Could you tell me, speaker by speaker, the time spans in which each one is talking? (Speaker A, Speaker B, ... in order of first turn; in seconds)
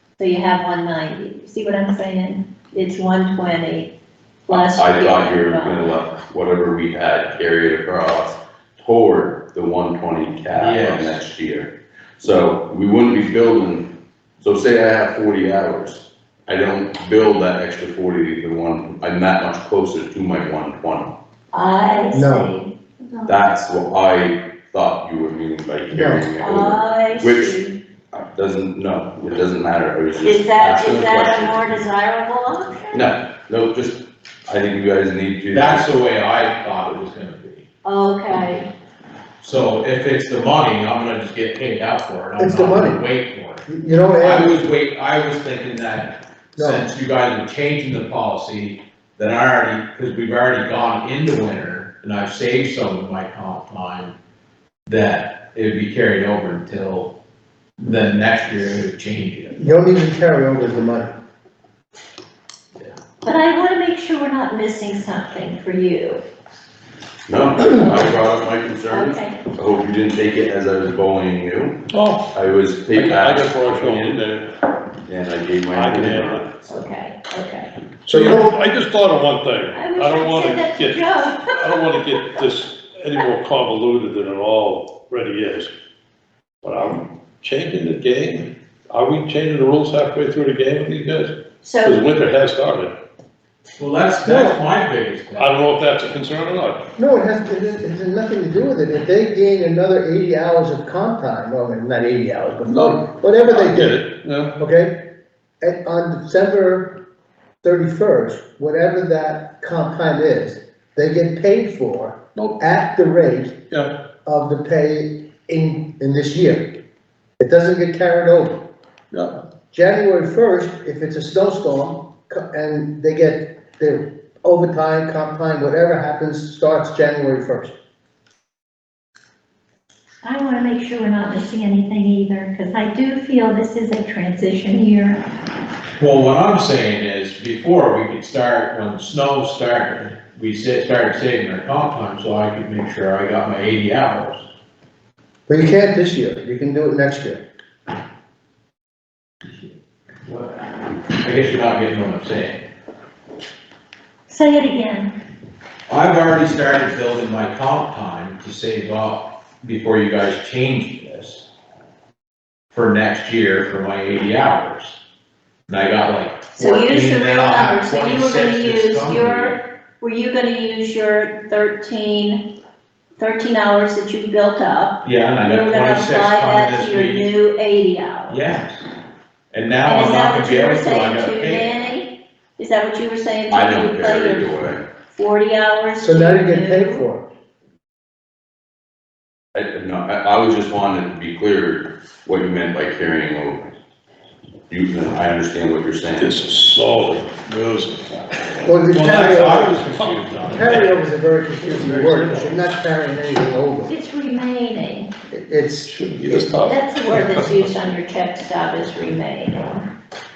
Speaker A: 0.2-3.9, 4.5-5.9, 21.5-23.3, 26.4-27.8, 30.2-33.1, 37.8-38.7, 63.2-66.2, 67.7-68.1, 68.9-69.4, 76.7-77.7, 79.7-82.2, 91.6-92.0, 130.2-135.2, 154.3-155.1, 166.6-172.4, 173.2-178.4, 179.8-184.6, 185.1-187.0, 203.9-205.1, 206.6-209.9
Speaker B: 4.5-13.9, 14.4-21.1, 23.3-27.6, 28.1-31.7, 32.9-35.9, 67.3-71.8, 72.3-74.2, 75.1-76.6, 183.5-184.8, 189.5-193.7, 194.7-196.4
Speaker C: 10.6-11.2, 35.5-37.6, 39.4-43.7, 44.2-54.1, 54.9-57.1, 57.8-59.6, 93.8-95.6, 135.9-144.5, 150.2-150.6, 151.2-152.6, 155.9-161.4, 162.7-164.9, 165.7-169.5, 175.0-177.3, 178.3-178.8, 179.5-181.7, 198.9-200.7, 202.2-202.5
Speaker D: 22.1-22.5, 25.9-26.2, 42.4-43.0, 43.7-44.6, 46.6-46.9, 59.5-61.1, 78.1-78.5, 94.2-94.6, 97.0-105.0, 105.6-107.0, 107.6-113.6, 114.2-116.8, 117.4-118.6, 119.7-127.7, 145.5-147.4, 186.0-187.2, 198.6-199.8, 200.4-203.9, 205.3-206.5
Speaker E: 71.9-72.3, 72.9-74.5, 75.7-76.5, 78.1-85.7, 86.6-92.9, 95.4-96.8, 102.7-104.5, 119.1-119.4, 196.1-198.4, 199.7-200.2, 201.6-202.5, 205.8-207.7